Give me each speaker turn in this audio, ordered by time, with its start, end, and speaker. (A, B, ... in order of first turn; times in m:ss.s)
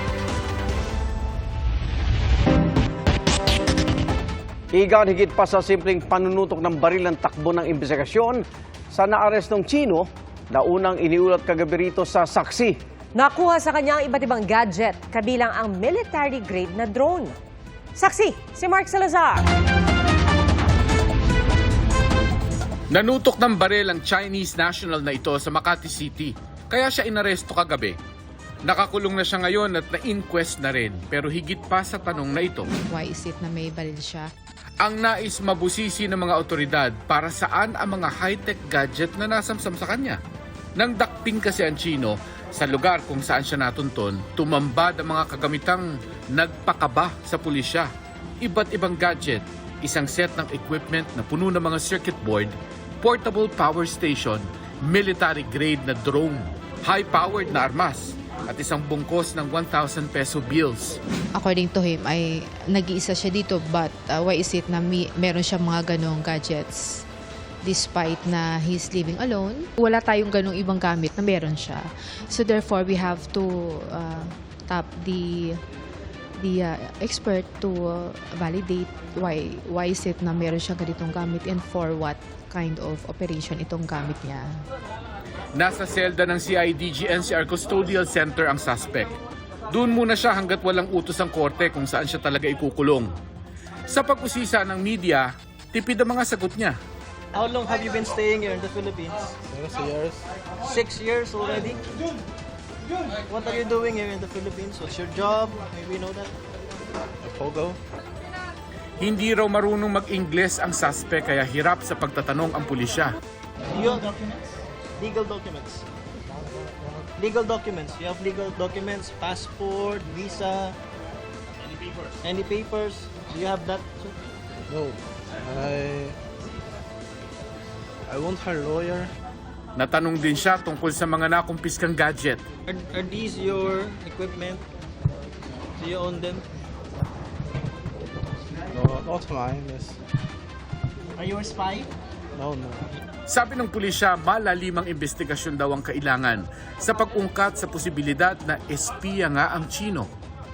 0:04.7-0:08.4 A
0:08.9-0:12.7 A
0:13.2-0:17.3 B
0:18.0-0:19.4 B
0:22.9-0:28.0 C
0:28.7-0:32.7 C
0:32.8-0:34.3 D
0:34.8-0:40.2 C
0:40.8-0:47.9 C
0:48.4-1:01.0 C
1:01.4-1:07.0 D
1:07.6-1:15.6 D
1:16.4-1:24.5 D
1:25.6-1:29.1 C
1:29.7-1:33.1 C
1:33.9-1:36.8 C
1:37.4-1:39.4 E
1:39.6-1:40.0 F
1:40.6-1:41.8 E
1:43.3-1:46.3 E
1:47.4-1:47.7 F
1:49.0-1:53.2 C
1:53.7-1:54.4 E
1:55.0-1:55.8 E
1:57.2-2:00.8 E
2:02.2-2:04.2 E
2:05.5-2:06.1 F
2:09.8-2:12.4 C
2:12.7-2:14.6 E
2:15.8-2:16.4 E
2:19.0-2:19.7 F
2:21.2-2:21.9 E
2:23.3-2:30.1 C